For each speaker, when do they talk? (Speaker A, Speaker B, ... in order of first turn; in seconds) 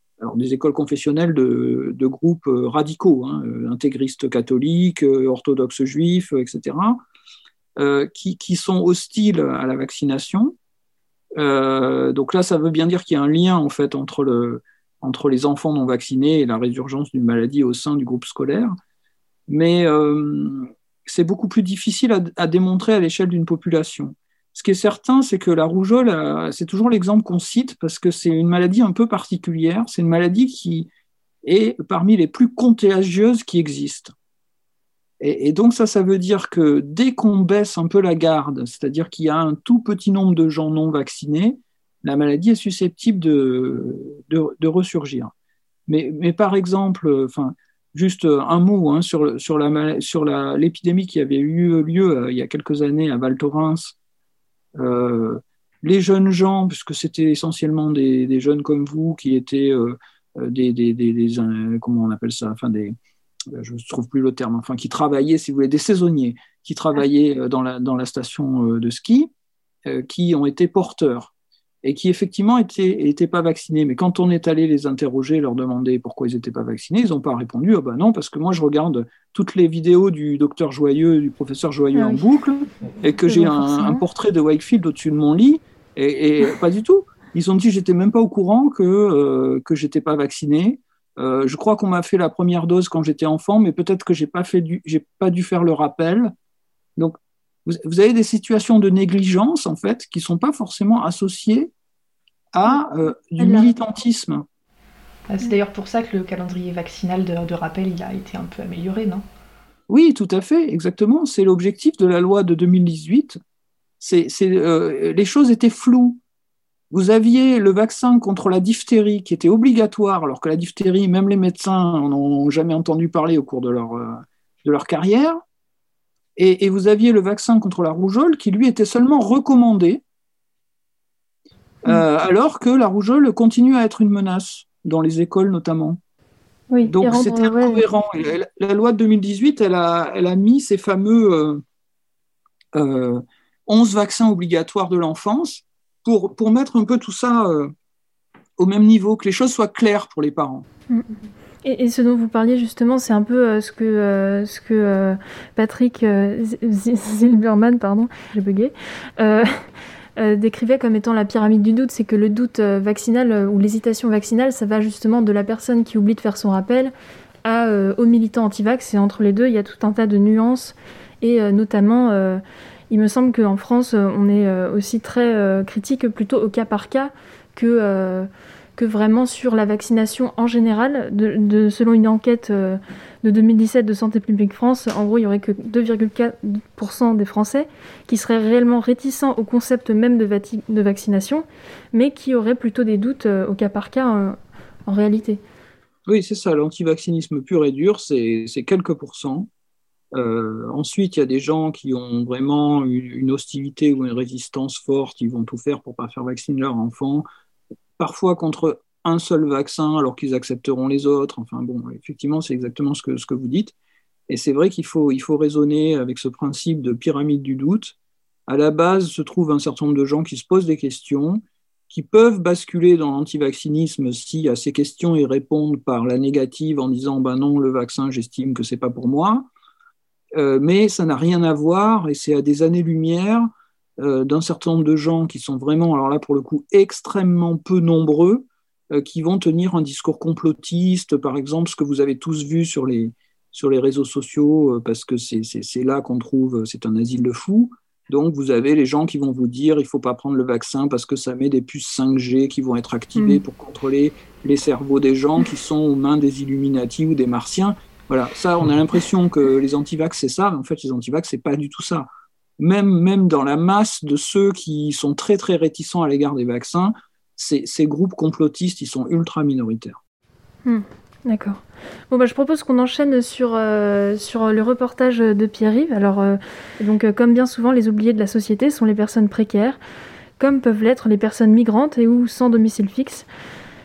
Speaker A: 0.2-7.0, 7.8-10.6, 11.4-18.7, 19.5-30.9, 31.4-34.1, 35.2-45.3, 45.9-54.0, 54.8-63.0, 63.5-69.3, 69.9-96.3, 97.0-101.7, 102.5-104.5, 109.9-113.4, 114.0-116.2, 116.9-125.4, 126.4-130.0, 131.8-136.0, 136.9-141.6, 142.7-147.7, 148.6-150.7, 196.1-199.5, 200.1-207.3, 208.0-213.7, 214.3-218.0, 218.5-229.5, 230.3-262.1, 262.6-270.0
Speaker B: 82.0-82.2, 83.3-84.0, 103.4-103.7, 136.7-137.8, 151.6-159.6, 160.2-166.9, 167.4-195.4, 253.2-253.4, 270.6-279.8, 280.4-283.3
Speaker C: 105.3-109.2